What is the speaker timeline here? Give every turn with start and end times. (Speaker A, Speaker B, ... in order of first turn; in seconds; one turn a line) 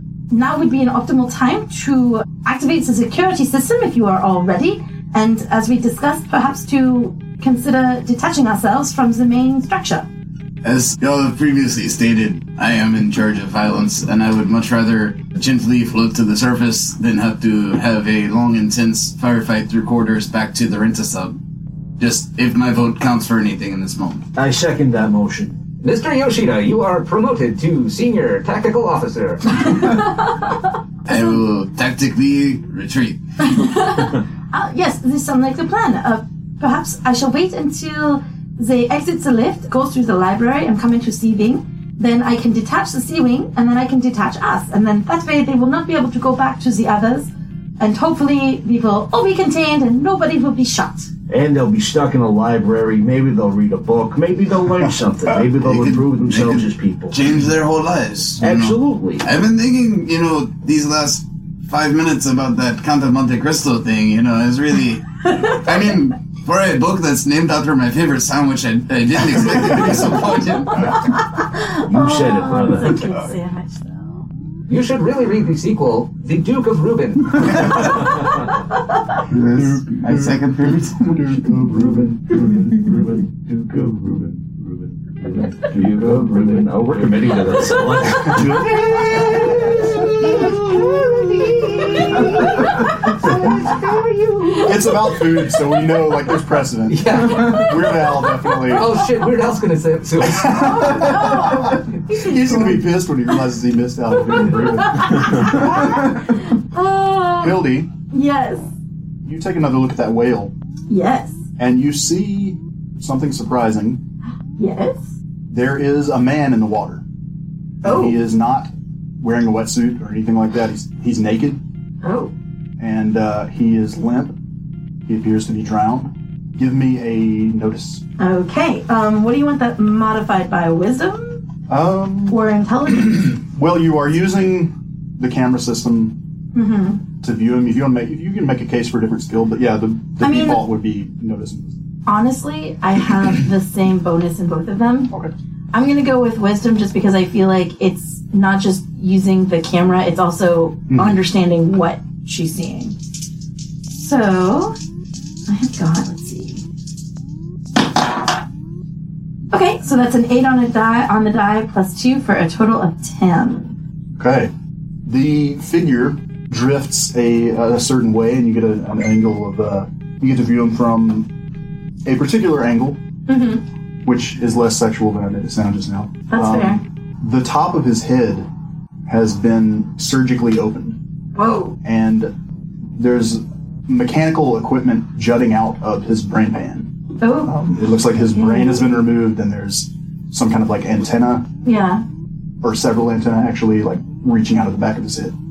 Speaker A: 0.3-10.1
Speaker B: 10.6-21.4
Speaker B: 22.0-24.3
Speaker C: 24.3-25.6
Speaker D: 25.8-29.8
Speaker B: 31.1-33.2
Speaker A: 33.4-51.1
Speaker C: 51.3-57.2
Speaker B: 55.6-71.0
Speaker C: 58.4-59.2
Speaker A: 70.8-74.3
Speaker C: 71.8-73.0
Speaker D: 74.7-78.0
Speaker C: 77.8-78.5
Speaker B: 79.3-81.4
Speaker E: 79.5-80.4
Speaker E: 81.1-82.5
Speaker C: 82.3-92.5
Speaker D: 85.2-87.3
Speaker A: 88.7-90.4
Speaker A: 91.4-93.8
Speaker A: 94.4-94.8
Speaker E: 94.6-99.0
Speaker D: 96.9-98.1
Speaker D: 98.6-101.2
Speaker E: 100.2-105.7
Speaker A: 100.8-101.7
Speaker A: 102.2-102.5
Speaker A: 104.7-108.7
Speaker E: 107.4-107.9
Speaker E: 109.2-110.5
Speaker A: 110.9-111.4
Speaker E: 111.6-114.0
Speaker A: 114.6-115.1
Speaker E: 115.5-117.0
Speaker E: 117.8-118.7
Speaker A: 117.8-118.2
Speaker E: 119.2-121.6
Speaker A: 122.0-122.3
Speaker E: 122.8-124.3
Speaker E: 125.1-128.0
Speaker A: 128.2-131.4
Speaker E: 131.7-132.4
Speaker A: 132.3-133.3
Speaker E: 133.0-136.2
Speaker A: 136.5-137.0
Speaker E: 137.2-141.8
Speaker A: 140.2-140.6
Speaker A: 142.1-145.1
Speaker A: 145.7-152.9
Speaker E: 150.9-151.2
Speaker A: 153.9-154.8
Speaker A: 155.5-156.6
Speaker A: 159.5-163.8
Speaker E: 164.2-164.5
Speaker E: 165.1-171.3
Speaker E: 172.0-173.0
Speaker A: 173.3-173.6
Speaker E: 174.0-178.5
Speaker A: 176.3-176.8
Speaker E: 179.1-181.0
Speaker A: 181.3-181.8
Speaker E: 181.8-182.3
Speaker E: 182.9-186.9
Speaker A: 187.2-187.5
Speaker E: 187.4-191.4
Speaker A: 188.3-188.8
Speaker A: 191.6-192.0
Speaker E: 192.6-195.3